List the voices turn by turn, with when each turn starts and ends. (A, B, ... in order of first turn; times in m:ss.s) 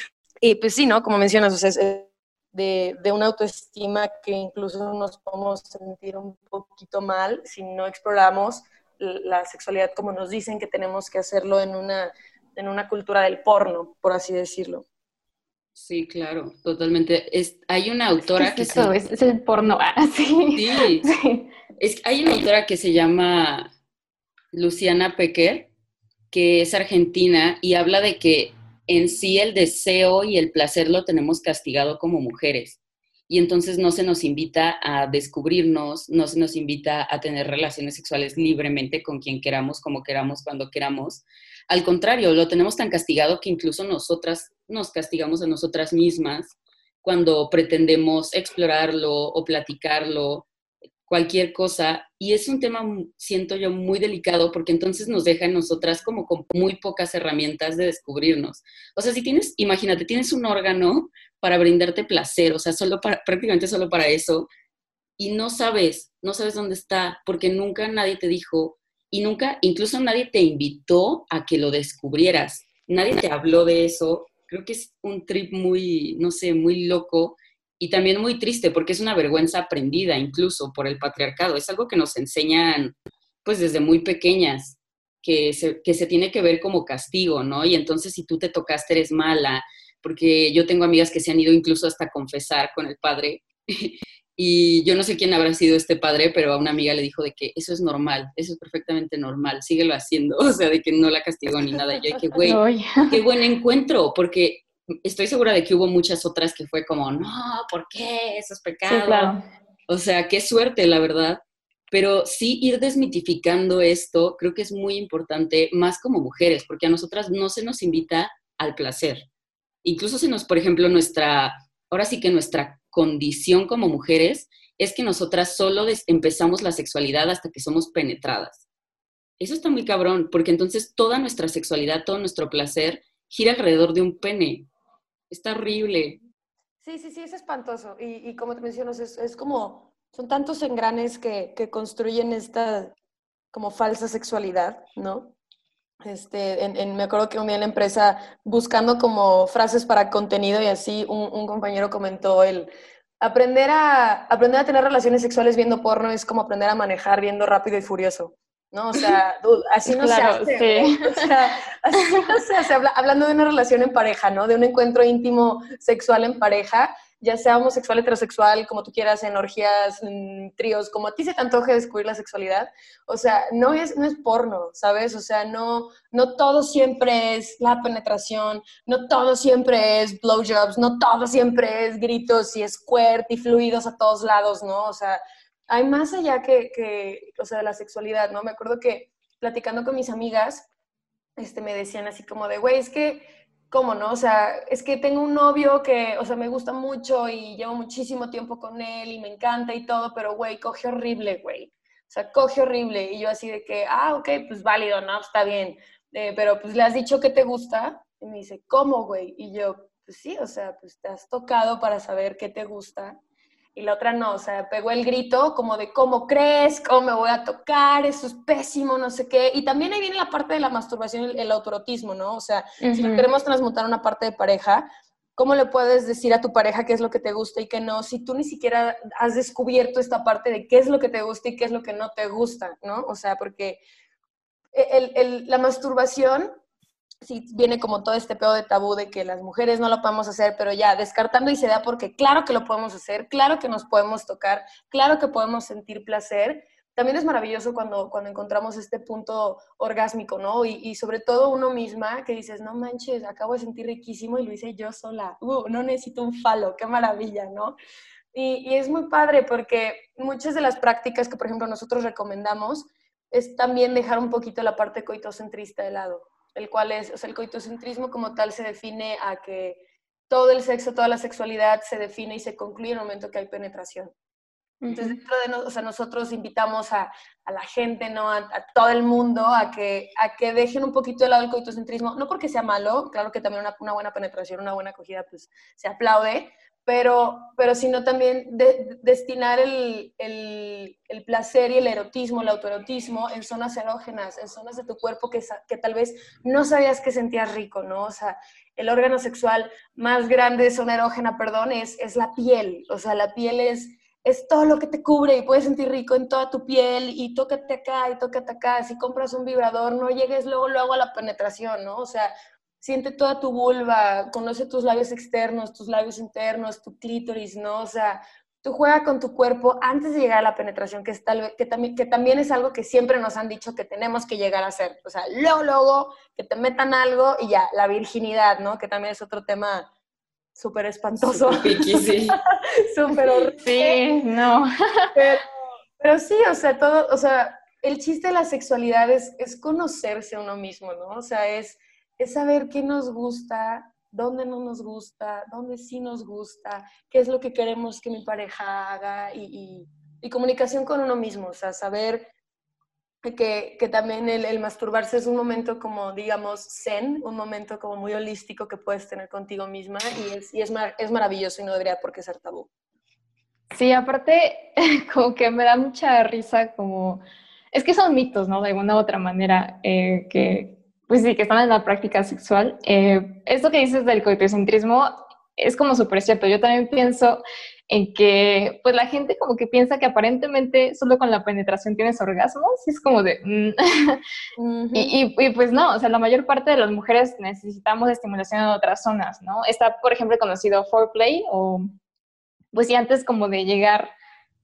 0:00.4-0:14.8 A
0:15.8-0:19.0 B
0:18.4-0:21.5 C
0:20.5-0:21.1 B
0:21.8-0:23.7 B
0:24.5-0:25.7 B
0:26.3-0:50.5 B
0:51.1-1:04.5 B
1:05.2-1:49.4 B
1:42.4-1:43.2 C
1:48.9-1:49.4 C
1:49.9-1:59.3 B
1:59.8-2:08.6 B
2:09.4-2:14.7 B
2:15.3-2:16.2 B
2:16.8-2:22.9 A
2:23.5-2:25.3 A
2:26.0-2:32.7 A
2:33.2-3:10.7 A
2:39.9-2:41.3 C
2:42.0-2:42.3 C
3:11.4-3:33.2 A
3:33.8-3:53.8 A
3:42.8-3:43.3 C
3:54.7-3:56.6 A
3:57.2-4:17.8 A
4:18.3-4:34.1 A
4:34.8-4:35.2 C
4:34.9-5:29.9 A
5:30.6-5:34.0 A
5:31.2-5:32.4 B
5:33.6-5:35.2 C
5:35.2-5:35.5 A
5:36.0-5:52.3 A
5:53.2-6:02.7 A
6:03.7-6:24.2 C
6:24.6-6:25.2 A
6:25.0-6:31.9 C
6:32.7-6:34.1 C